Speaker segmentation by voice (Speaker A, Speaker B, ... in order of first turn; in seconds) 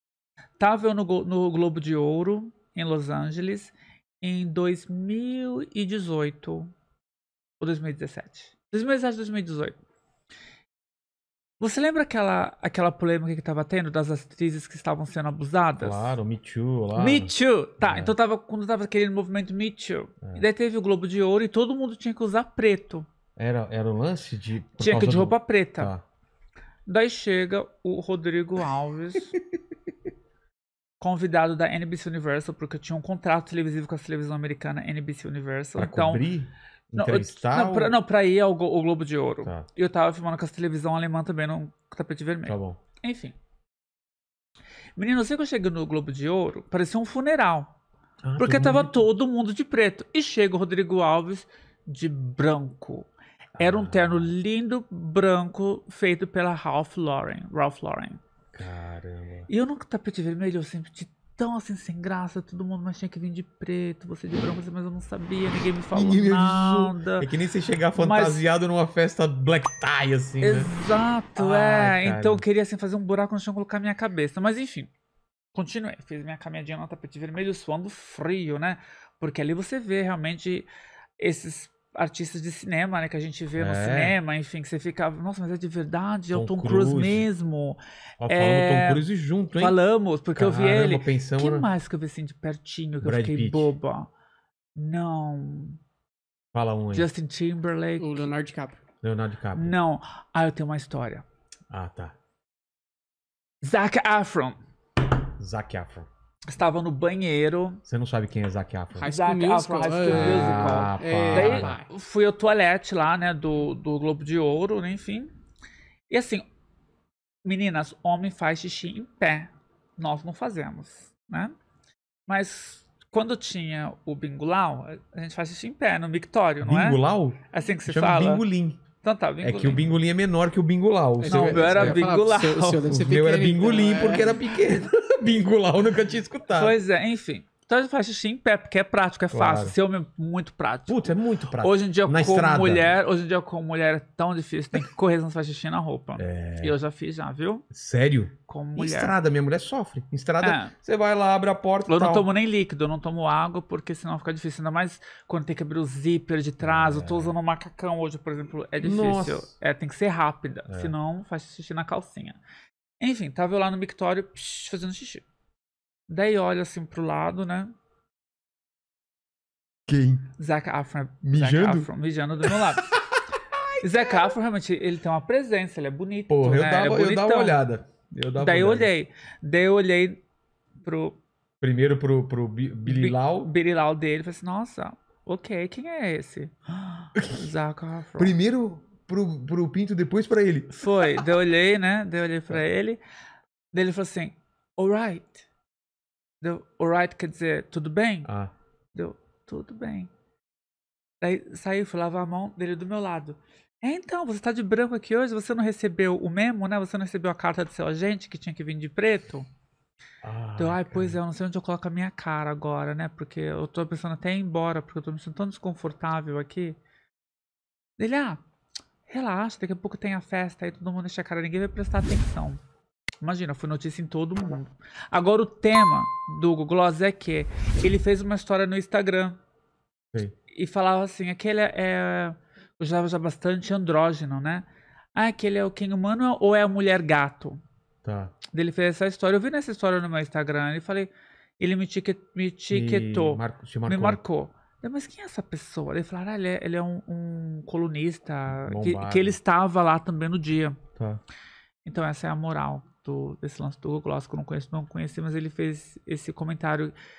Speaker A: 0.6-6.7, 7.6-9.8, 11.6-16.1, 16.9-23.1, 24.8-25.9, 26.9-29.3, 31.0-36.2, 37.0-43.3, 45.0-47.7, 48.4-58.2, 59.5-67.3, 67.9-68.4, 70.4-74.9, 75.5-80.7, 81.2-89.0, 89.5-94.1, 94.8-95.8, 96.9-98.3, 99.5-101.2, 103.6-104.6, 106.5-107.8, 109.1-115.3, 116.1-116.4, 117.4-121.5, 122.3-128.4, 129.0-129.9, 131.3-132.9, 136.5-147.6, 148.5-149.1, 150.4-150.7, 151.9-162.4, 163.0-165.2, 166.1-167.7, 170.4-172.9, 173.8-177.6, 178.4-180.2, 180.8-181.2, 182.8-188.3, 190.7-193.0, 193.7-195.4, 196.4-198.3, 198.9-200.1, 201.2-209.4, 210.6-216.8, 218.0-218.4, 219.1-222.6, 223.2-229.4, 230.5-237.6, 238.5-250.8, 251.8-256.9
Speaker B: 15.8-18.1, 23.4-26.0, 35.8-38.0, 42.5-42.8, 48.2-49.0, 53.6-54.3, 58.5-59.5, 65.9-70.7, 71.3-72.4, 83.5-84.2, 86.3-87.3, 88.2-89.8, 90.3-91.7, 93.0-93.7, 96.5-97.1, 99.0-99.7, 101.7-102.1, 105.4-106.1, 107.8-109.1, 110.0-111.7, 126.6-128.8, 129.4-132.0, 132.8-136.8, 139.3-139.8, 140.9-143.0, 146.2-146.8, 147.7-152.3, 156.6-157.3, 158.8-159.5, 160.7-160.9, 169.9-170.3, 171.2-171.9, 172.4-173.2, 176.3-178.9, 181.6-183.5, 188.2-191.3, 198.2-198.5, 210.2-211.2, 238.0-238.3, 242.7-244.2, 248.5-249.4, 250.9-251.2
Speaker C: 98.0-98.8, 108.9-111.9, 131.2-134.4